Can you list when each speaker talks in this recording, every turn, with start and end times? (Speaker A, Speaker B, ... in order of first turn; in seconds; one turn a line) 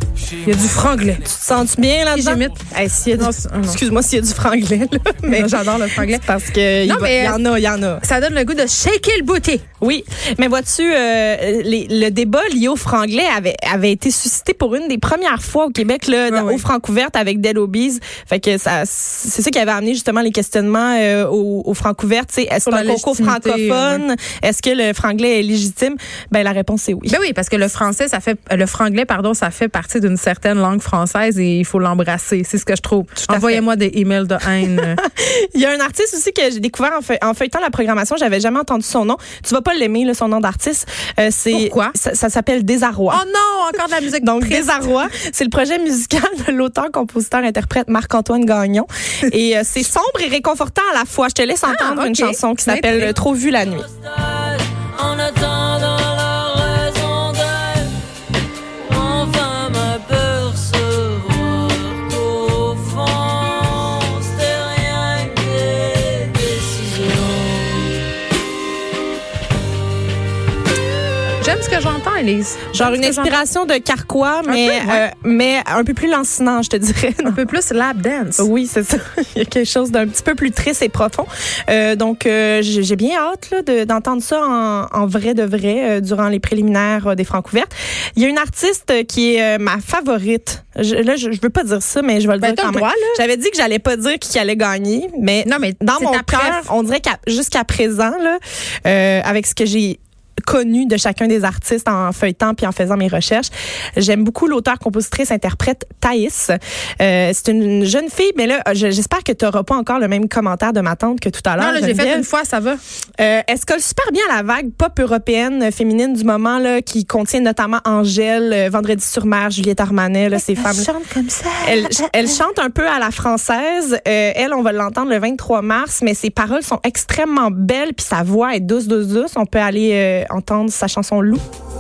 Speaker A: 0.4-1.3
Speaker B: 1.2-8.0
Speaker A: 2.1-2.6
Speaker A: 3.2-3.8
Speaker A: 5.3-6.2
Speaker A: 6.8-7.4
Speaker A: 8.0-9.6
Speaker B: 9.8-27.1
Speaker A: 16.3-16.6
Speaker A: 22.6-24.0
Speaker A: 27.1-35.0
Speaker B: 33.3-33.6
Speaker B: 34.8-43.2
Speaker A: 41.5-42.0
Speaker A: 43.1-44.8
Speaker B: 44.2-53.9
Speaker A: 51.7-53.1
Speaker C: 54.4-58.0
Speaker C: 58.8-68.0
Speaker A: 71.4-73.4
Speaker B: 72.8-77.4
Speaker A: 74.5-75.0
Speaker A: 77.2-78.5
Speaker B: 78.4-112.3
Speaker A: 92.4-93.2
Speaker A: 95.5-96.7
Speaker A: 111.6-112.8
Speaker B: 113.2-120.9
Speaker A: 120.5-122.0
Speaker B: 121.6-131.4